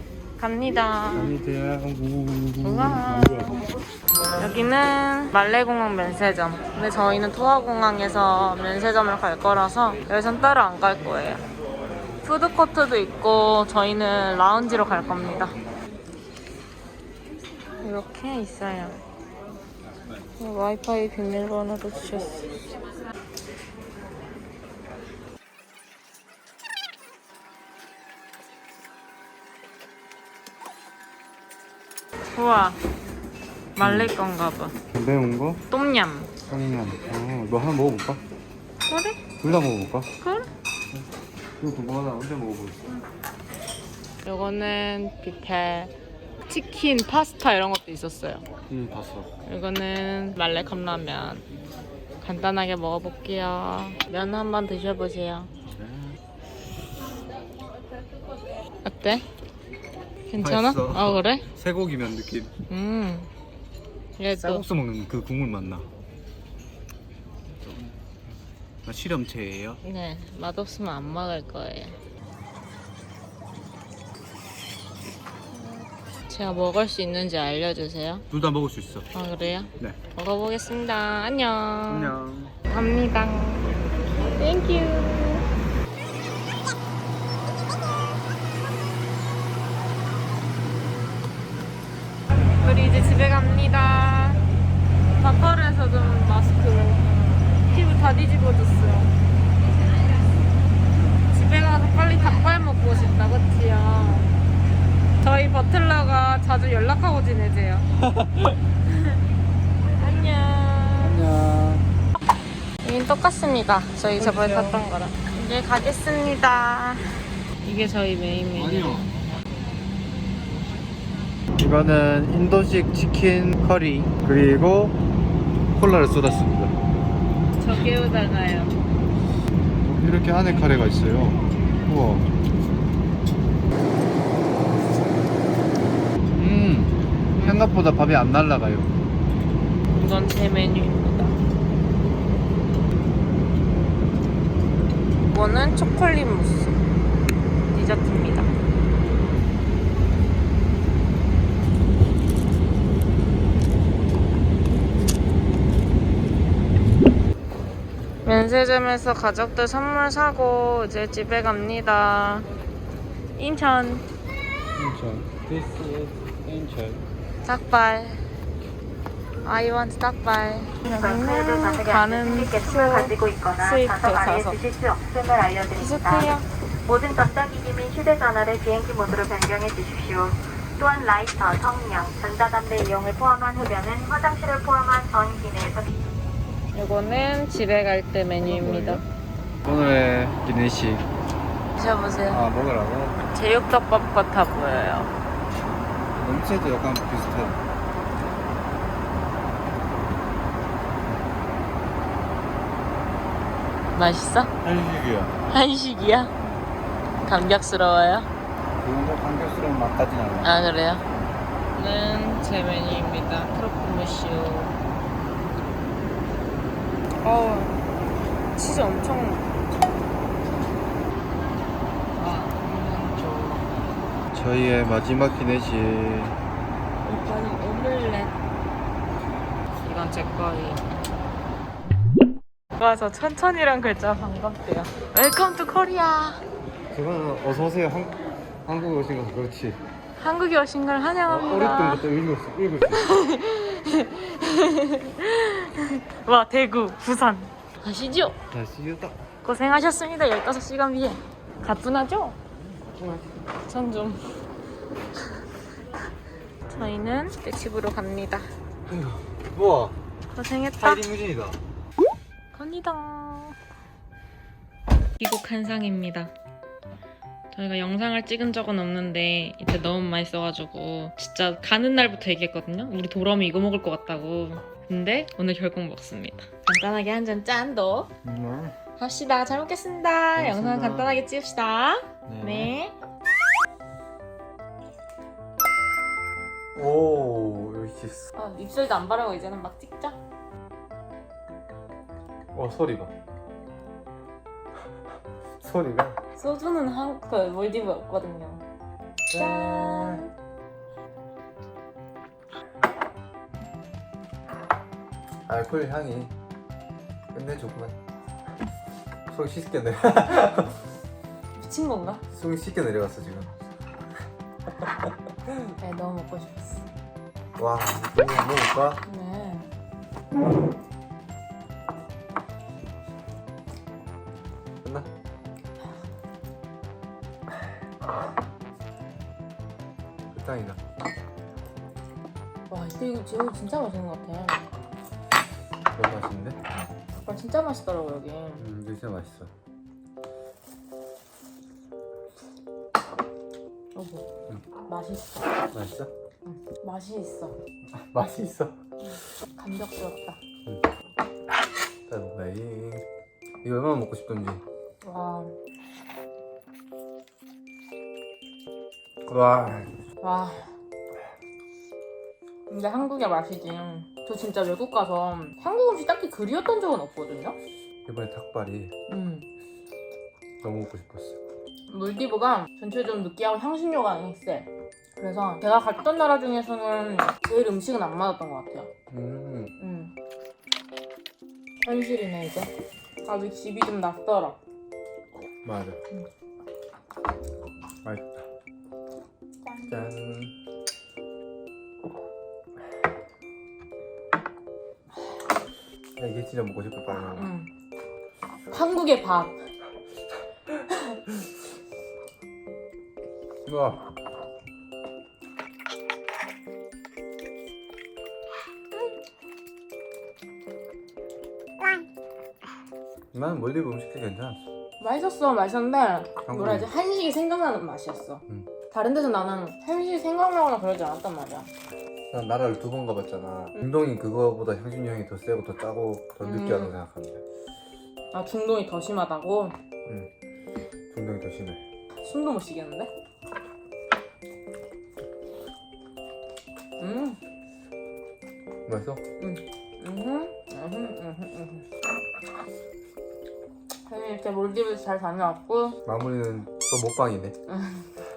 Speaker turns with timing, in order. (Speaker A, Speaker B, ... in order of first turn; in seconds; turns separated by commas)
Speaker A: 0.4-1.3, Speaker B: 1.1-3.7, Speaker A: 2.6-3.6, Speaker A: 4.4-11.4, Speaker A: 12.2-15.5, Speaker A: 17.8-19.0, Speaker A: 20.4-22.5, Speaker A: 32.4-32.8, Speaker A: 33.8-34.7, Speaker B: 33.8-34.1, Speaker B: 34.9-35.6, Speaker A: 35.7-36.3, Speaker B: 36.5-38.2, Speaker A: 38.9-39.2, Speaker B: 39.4-40.1, Speaker A: 40.2-40.5, Speaker B: 41.6-42.8, Speaker A: 44.2-45.9, Speaker A: 46.5-48.4, Speaker B: 48.7-49.3, Speaker A: 49.5-51.4, Speaker A: 52.2-55.5, Speaker B: 55.7-56.2, Speaker A: 58.8-59.2, Speaker A: 60.3-61.5, Speaker B: 60.4-62.5, Speaker A: 62.7-63.3, Speaker A: 64.2-64.6, Speaker B: 64.3-65.8, Speaker B: 67.5-68.1, Speaker B: 68.8-69.8, Speaker A: 69.8-72.0, Speaker A: 75.5-78.2, Speaker B: 78.3-79.1, Speaker A: 79.1-82.2, Speaker B: 81.9-82.5, Speaker A: 82.7-83.7, Speaker A: 84.4-85.4, Speaker A: 92.6-94.4, Speaker A: 95.2-99.1, Speaker A: 101.3-104.3, Speaker A: 105.2-107.9, Speaker B: 108.0-108.6, Speaker A: 110.0-111.2, Speaker B: 111.0-111.8, Speaker A: 112.8-117.1, Speaker B: 114.1-114.8, Speaker A: 117.6-119.0, Speaker B: 118.5-119.1, Speaker B: 121.6-124.9, Speaker B: 125.7-126.7, Speaker A: 127.5-128.7, Speaker B: 129.8-132.3, Speaker B: 136.3-138.9, Speaker A: 139.9-141.4, Speaker A: 145.3-146.8, Speaker A: 147.7-148.5, Speaker A: 158.2-162.5, Speaker A: 163.3-164.0, Speaker B: 164.7-167.0, Speaker A: 167.4-168.3, Speaker A: 169.4-174.6, Speaker C: 170.9-176.3, Speaker A: 175.8-176.4, Speaker C: 176.8-185.9, Speaker A: 186.7-189.0, Speaker B: 188.4-189.0, Speaker B: 189.6-191.1, Speaker A: 191.7-192.4, Speaker B: 192.3-193.2, Speaker A: 193.3-195.1, Speaker B: 196.1-197.6, Speaker A: 203.9-204.5, Speaker B: 204.6-205.3, Speaker A: 205.5-206.3, Speaker A: 207.2-208.3, Speaker B: 208.8-210.6, Speaker A: 210.4-211.0, Speaker A: 211.7-214.7, Speaker A: 217.2-217.8, Speaker A: 218.5-219.5, Speaker A: 222.2-223.7, Speaker B: 224.3-226.4, Speaker A: 227.0-228.3, Speaker A: 229.8-230.8, Speaker A: 232.8-236.4, Speaker B: 236.9-239.8, Speaker A: 240.2-242.1, Speaker B: 241.2-243.1, Speaker A: 242.9-248.4, Speaker B: 248.5-249.2, Speaker A: 249.4-252.4, Speaker B: 252.5-253.4, Speaker A: 253.7-254.2, Speaker A: 256.7-258.5, Speaker B: 258.9-260.0, Speaker A: 260.3-261.0, Speaker B: 260.8-261.6, Speaker A: 262.5-263.6, Speaker A: 265.2-266.3, Speaker A: 267.5-278.1, Speaker B: 278.2-278.7, Speaker A: 279.0-282.9, Speaker B: 280.3-281.1, Speaker B: 282.2-282.7, Speaker B: 286.7-288.3, Speaker A: 288.4-290.2, Speaker B: 292.5-293.1, Speaker B: 295.6-296.2, Speaker A: 296.4-298.6, Speaker B: 299.3-300.2, Speaker A: 299.3-300.3, Speaker B: 305.5-306.3, Speaker B: 307.3-308.0, Speaker B: 309.3-310.7, Speaker A: 311.6-312.2, Speaker B: 312.3-313.6, Speaker A: 315.8-316.9, Speaker B: 317.6-319.0, Speaker A: 319.1-319.6, Speaker B: 324.8-325.1, Speaker B: 330.3-330.8, Speaker A: 332.7-334.6, Speaker B: 335.9-336.6, Speaker A: 337.2-338.6, Speaker B: 338.6-339.5, Speaker A: 343.9-344.2, Speaker A: 344.9-345.5, Speaker B: 345.7-346.1, Speaker A: 346.4-347.5, Speaker B: 347.9-348.8, Speaker A: 349.6-350.4, Speaker B: 352.1-353.0, Speaker B: 353.6-354.6, Speaker A: 355.0-355.5, Speaker B: 359.2-359.9, Speaker A: 360.2-360.7, Speaker A: 362.7-367.6, Speaker B: 368.1-368.9, Speaker A: 369.1-369.5, Speaker B: 370.6-371.4, Speaker A: 371.9-378.9, Speaker B: 379.1-379.7, Speaker A: 379.8-380.1, Speaker A: 381.8-382.7, Speaker A: 383.2-384.6, Speaker B: 385.6-386.0, Speaker B: 388.0-388.4, Speaker B: 389.8-390.5, Speaker B: 396.2-397.5, Speaker A: 397.3-397.7, Speaker A: 398.7-399.6, Speaker A: 400.9-401.2, Speaker B: 403.6-404.0, Speaker B: 413.3-414.6, Speaker A: 415.0-421.7, Speaker B: 416.4-416.9, Speaker B: 422.3-427.4, Speaker A: 426.4-426.9, Speaker A: 428.3-429.7, Speaker B: 431.1-431.8, Speaker A: 432.2-433.1, Speaker A: 437.0-437.4, Speaker B: 438.9-439.2, Speaker A: 439.4-441.9, Speaker A: 444.1-446.0, Speaker B: 446.0-447.6, Speaker A: 447.7-448.1